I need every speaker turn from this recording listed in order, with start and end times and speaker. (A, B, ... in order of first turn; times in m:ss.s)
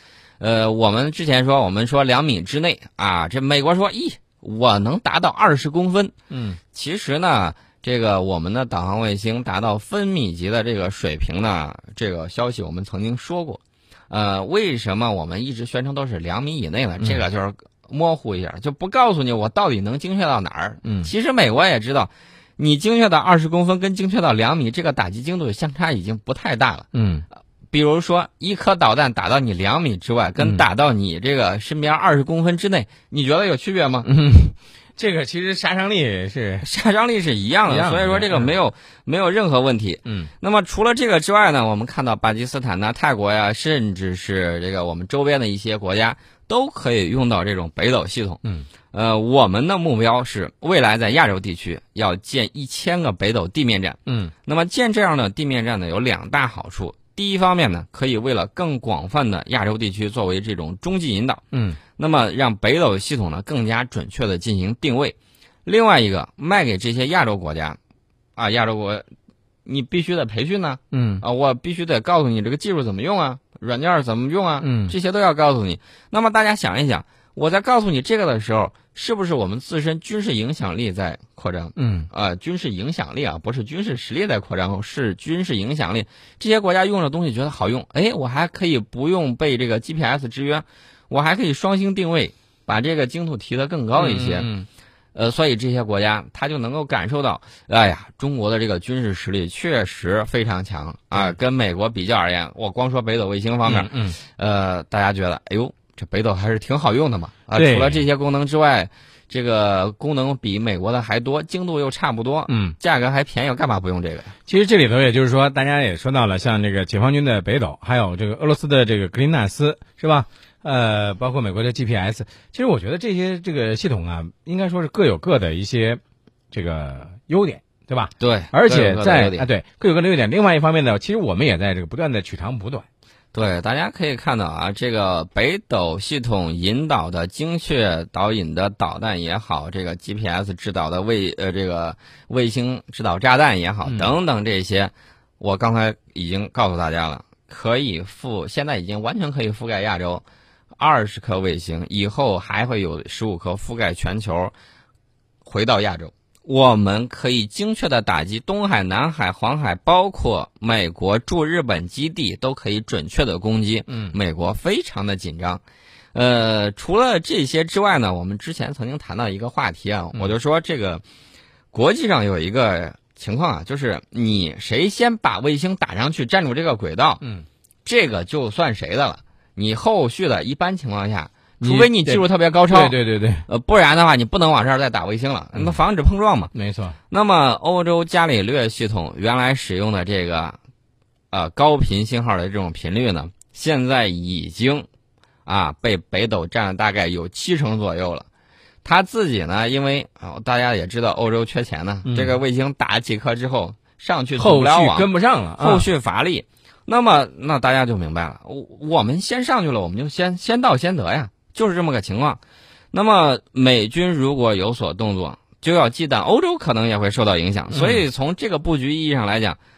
0:00.4-0:06.1 A
0:06.3-0:06.6 B
0:06.7-0:26.9 A
0:20.8-0:21.1 B
0:26.9-0:27.2 B
0:27.7-0:34.1 A
0:34.0-0:36.7 B
0:36.6-0:48.4 A
0:37.7-0:38.5 B
0:40.0-0:40.3 B
0:48.9-1:01.4 A
0:54.0-0:54.3 B
1:01.5-1:01.8 B
1:02.0-1:07.8 A
1:08.4-1:09.0 A
1:09.6-1:34.5 A
1:10.9-1:11.2 B
1:14.6-1:15.0 B
1:21.8-1:22.1 B
1:33.9-1:34.7 B
1:35.1-1:54.3 A
1:43.6-1:44.2 B
1:47.5-1:48.0 B
1:52.5-1:52.8 B
1:54.5-2:06.0 B
2:06.5-2:12.8 B
2:08.2-2:09.5 A
2:13.3-2:30.2 A
2:23.8-2:24.1 B
2:30.8-2:34.5 A
2:35.4-2:45.6 A
2:43.9-2:44.2 B
2:46.1-2:51.0 A
2:51.7-2:57.2 A
2:57.8-3:06.5 A
3:01.6-3:03.4 B
3:06.5-3:07.0 B
3:07.1-3:10.6 A
3:11.3-3:14.9 A
3:15.4-3:18.2 A
3:18.8-3:32.4 A
3:22.0-3:22.4 B
3:24.4-3:25.9 B
3:32.9-3:39.6 A
3:37.7-3:38.0 B